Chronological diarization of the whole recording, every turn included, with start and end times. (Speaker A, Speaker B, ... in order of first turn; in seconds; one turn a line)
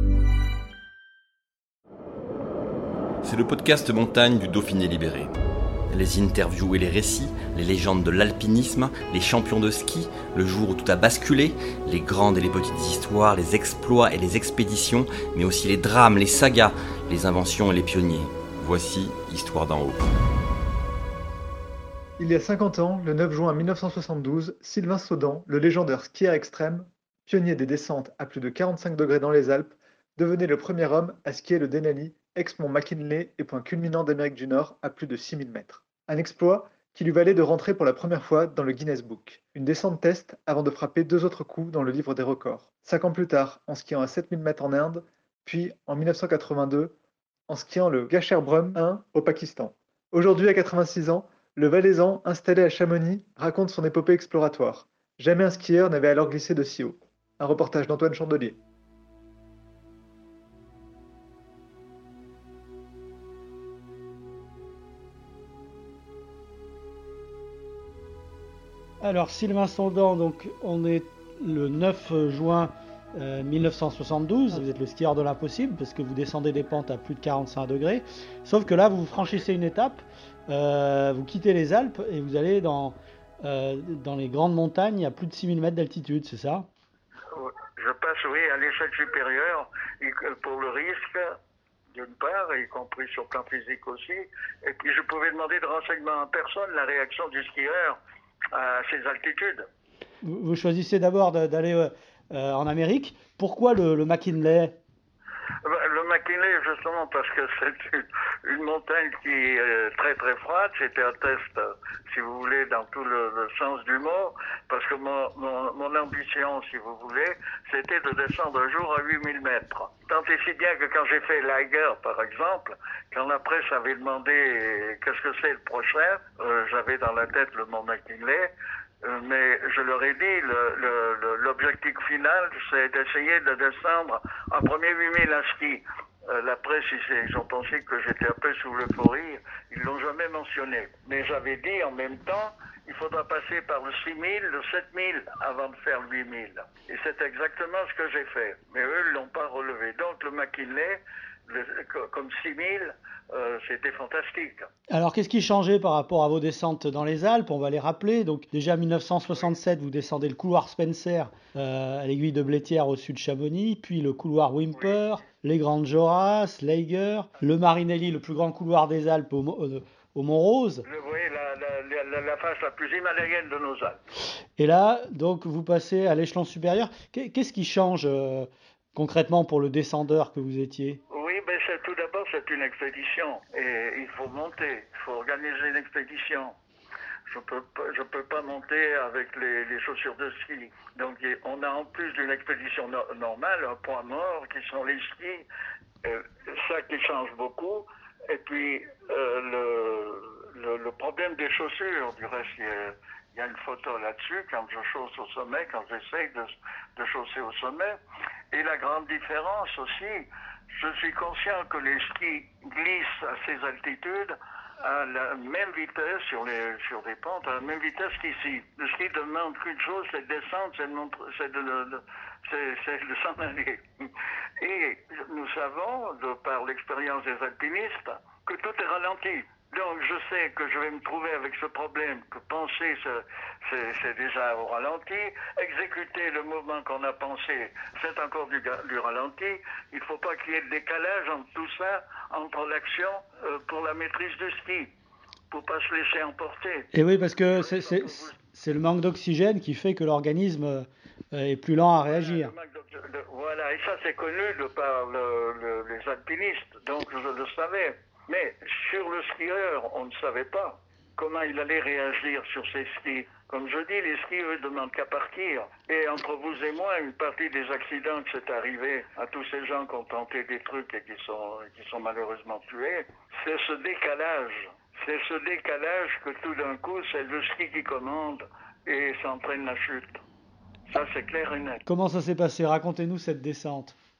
Speaker A: 3.2-5.3
Speaker A: 5.9-20.0
Speaker B: 22.2-46.9
Speaker B: 47.5-58.6
Speaker C: 69.0-86.7
Speaker D: 87.3-91.3
Speaker D: 91.9-98.0
Speaker D: 98.5-99.7
Speaker C: 100.2-104.8
Speaker D: 105.6-154.7
Speaker C: 154.9-170.8
Speaker D: 170.8-174.0
Speaker C: 174.6-181.0
Speaker D: 181.1-186.6
Speaker D: 187.2-195.5
Speaker D: 196.0-208.0
Speaker D: 208.5-223.8
Speaker D: 224.6-244.9
Speaker D: 245.5-248.3
Speaker C: 246.9-252.5
Speaker D: 252.1-280.2
Speaker D: 280.9-281.8
Speaker C: 281.9-283.9